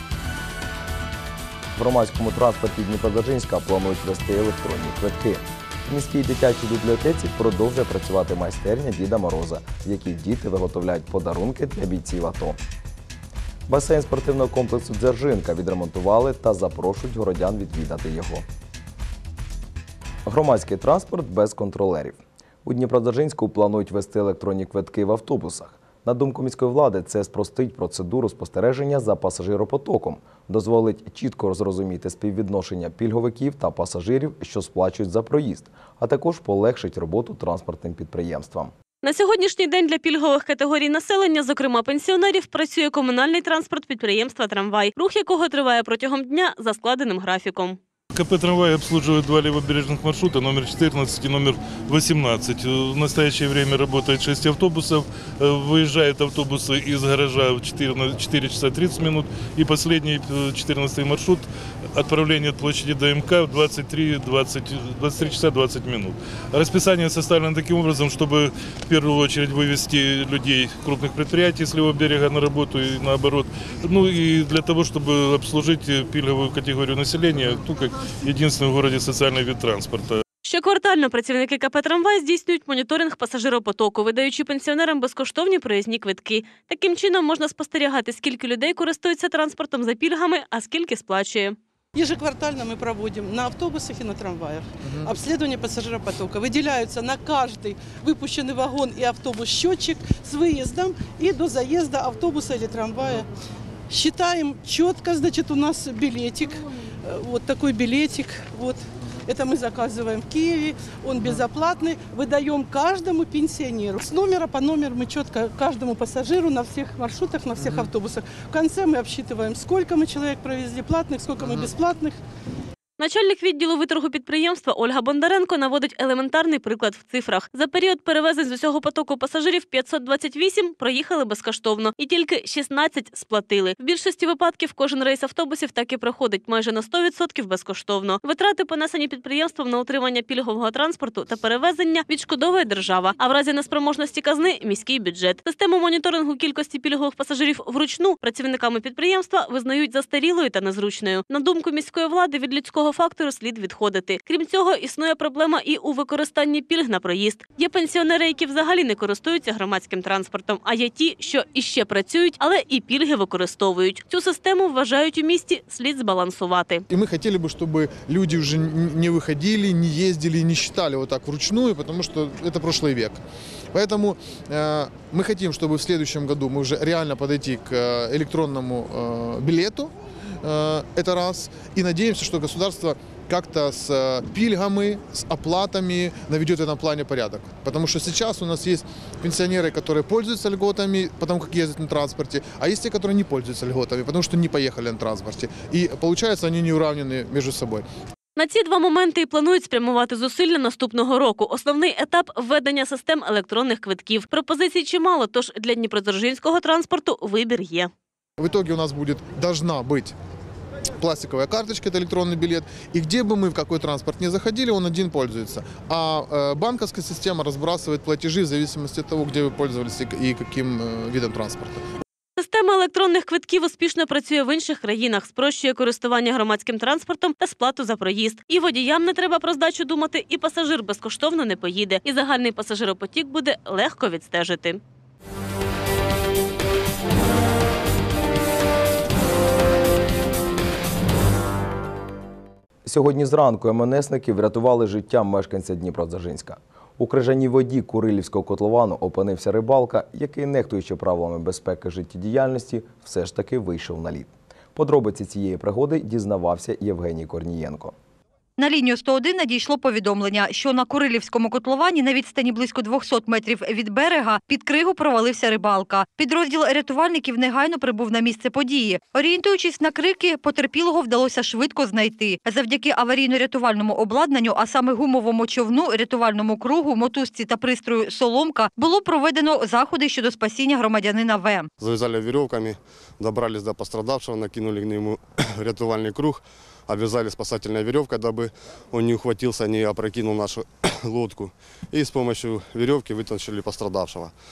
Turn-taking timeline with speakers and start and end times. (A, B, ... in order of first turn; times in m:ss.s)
0:01.8-0:12.6 A
0:13.7-0:18.4 A
0:20.2-0:38.7 A
0:39.0-0:47.8 B
0:48.1-1:20.2 C
1:20.4-1:31.6 B
1:31.9-1:43.2 D
1:43.9-2:02.2 D
2:03.0-2:46.8 B
2:46.9-2:53.2 E
2:53.7-2:59.9 E
3:00.4-3:17.8 E
3:18.4-3:27.9 B
3:28.4-3:30.1 E
3:31.0-3:41.8 E
3:42.4-3:54.8 B
4:02.9-4:17.9 A
4:18.6-4:41.7 F
4:41.8-4:54.3 G